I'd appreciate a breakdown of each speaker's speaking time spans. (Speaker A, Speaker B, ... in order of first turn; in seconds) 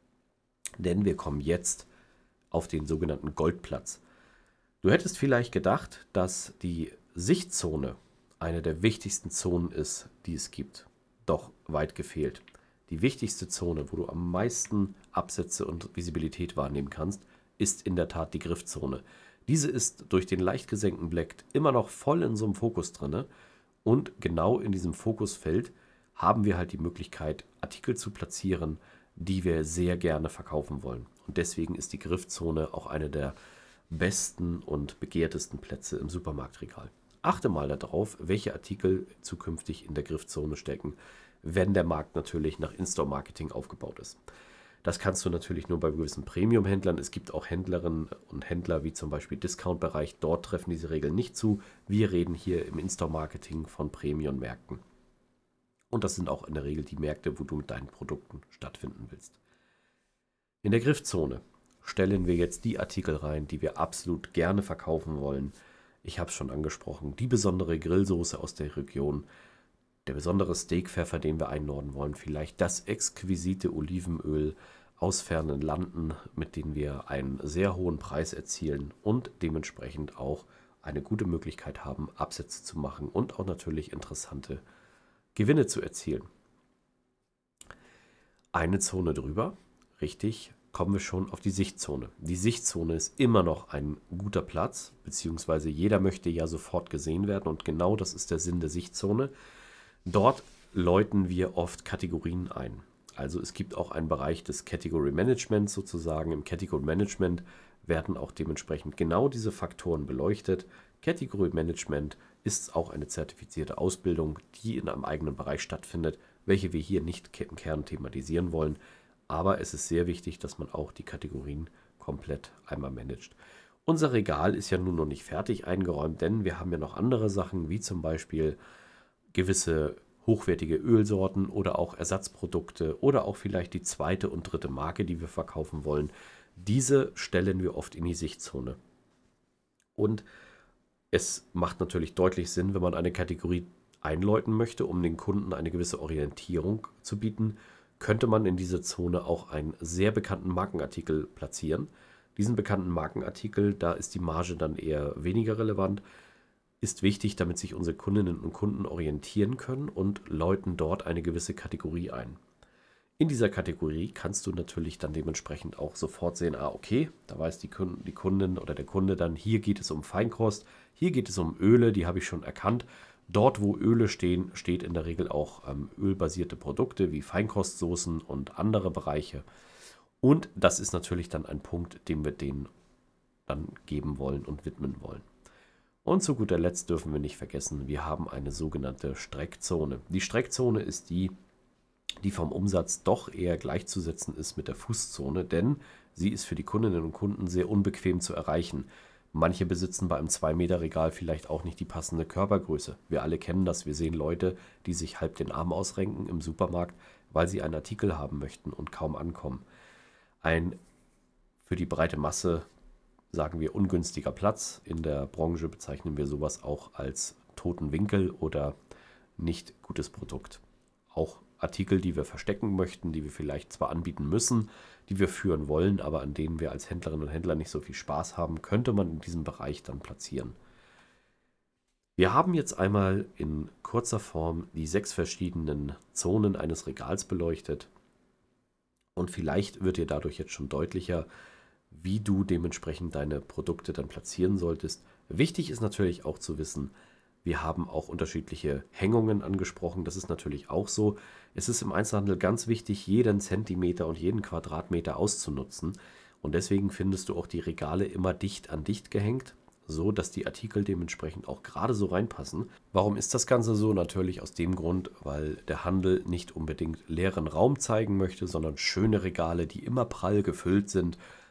Speaker A: 0.8-1.9, 2.5-4.0, 4.8-23.3, 23.9-33.4, 33.9-44.2, 44.8-54.8, 55.9-59.4, 60.6-69.2, 70.1-84.6, 85.3-86.3, 88.5-99.3, 100.1-128.6, 129.3-138.8, 140.0-140.3, 141.1-156.0, 156.8-162.4, 163.2-179.4, 180.2-182.7, 183.5-185.3, 186.1-191.3, 192.2-209.6, 210.4-210.8, 211.6-212.7, 213.3-218.8, 219.4-230.6, 232.2-237.9, 239.2-241.3, 241.9-246.9, 247.4-271.2